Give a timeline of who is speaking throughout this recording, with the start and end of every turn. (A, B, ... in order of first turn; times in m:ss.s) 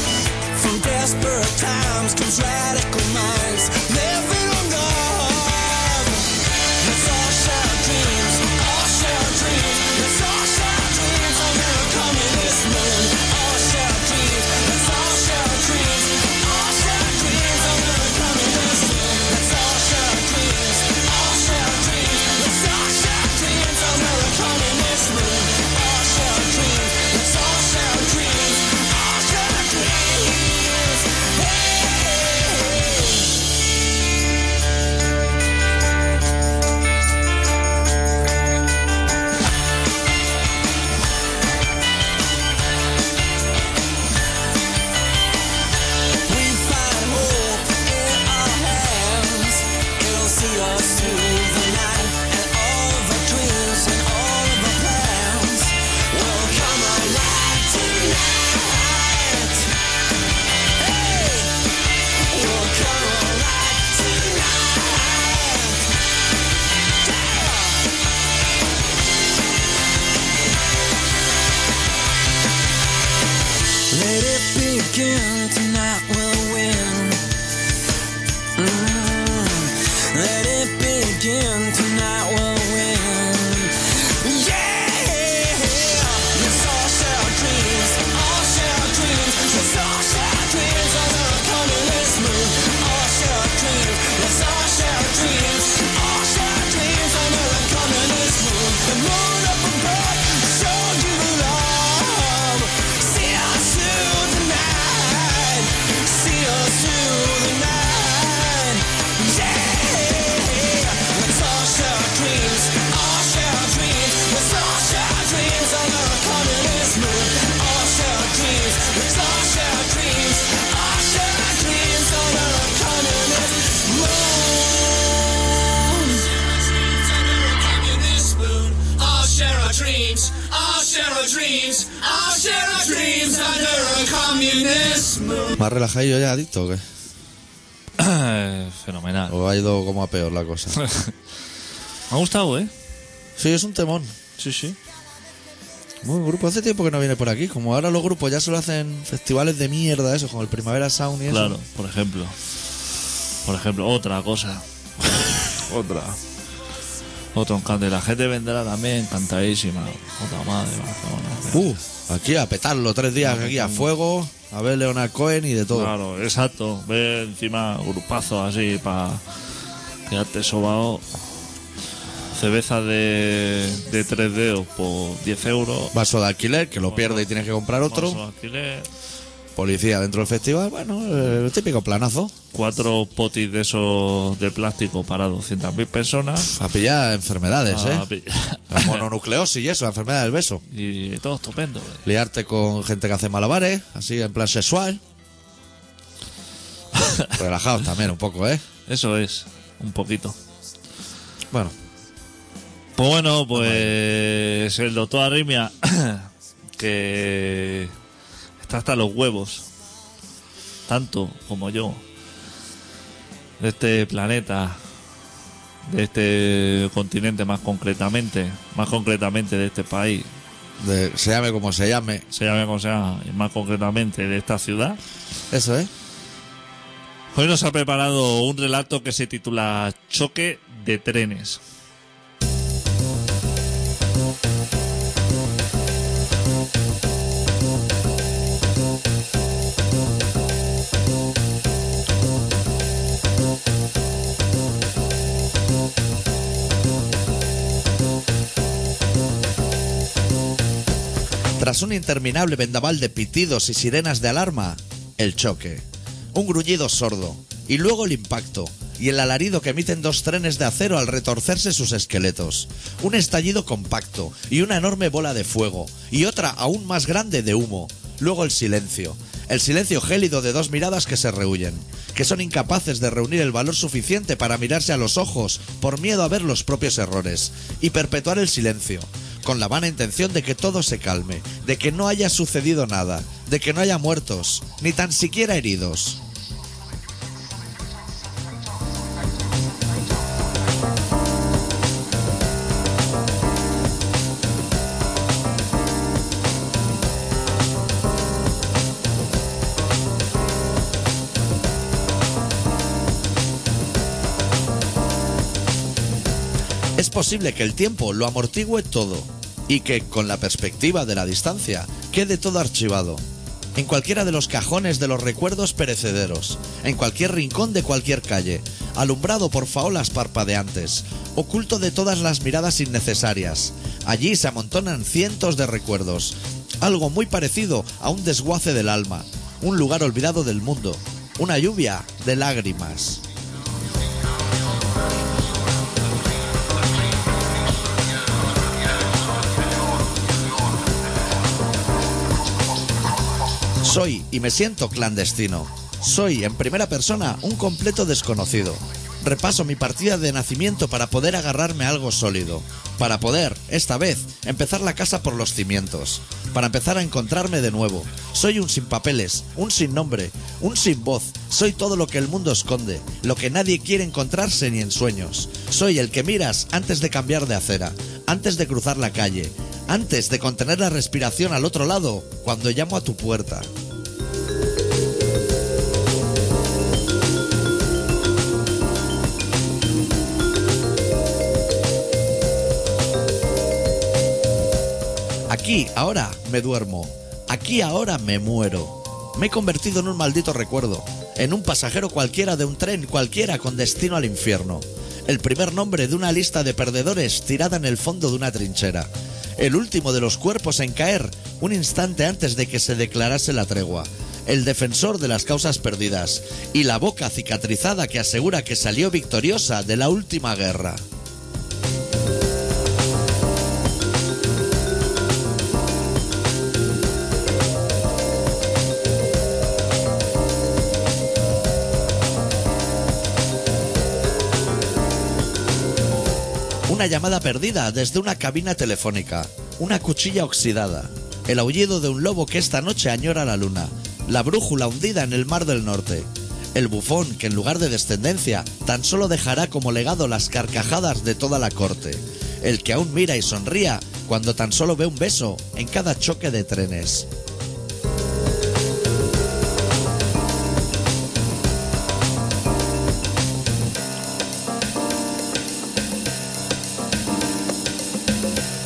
0:00.5-0:33.3 A
0:46.2-0:59.8 A
1:00.8-1:01.6 A
1:02.3-1:05.9 A
1:07.0-1:07.8 A
1:13.9-1:17.2 A
1:18.6-2:15.5 A
2:15.6-2:16.8 B
2:18.0-2:19.4 C
2:19.3-2:20.8 B
2:20.8-2:21.1 C
2:22.1-2:22.7 C
2:23.4-2:24.1 B
2:24.4-2:24.8 C
2:26.0-2:31.6 B
2:31.3-2:32.3 C
2:33.4-2:34.6 C
2:35.4-2:36.2 C
2:37.3-2:41.6 C
2:41.5-2:45.9 B
2:43.2-2:43.9 C
2:45.7-2:49.2 C
2:50.1-2:51.0 C
2:52.3-2:55.9 C
2:55.9-2:58.2 B
2:56.9-2:57.3 C
2:57.8-2:58.9 C
2:59.6-3:02.3 B
3:02.5-3:06.5 C
3:06.4-3:08.0 B
3:07.7-3:09.0 C
3:08.7-3:10.6 B
3:10.7-3:12.0 C
3:12.0-3:15.0 B
3:17.0-3:17.3 C
3:17.3-3:18.6 B
3:18.9-3:20.4 C
3:23.0-3:27.9 C
3:23.5-3:23.9 B
3:28.6-3:29.6 C
3:30.9-3:32.0 C
3:33.6-3:34.8 C
3:35.8-3:40.3 C
3:40.8-3:42.2 B
3:42.3-3:45.0 C
3:45.5-3:45.9 B
3:47.3-3:51.6 C
4:11.6-4:46.2 B
5:07.0-5:13.2 B
5:13.8-5:33.2 B
5:43.8-6:13.7 B
6:25.5-6:51.0 B
7:06.9-7:27.3 B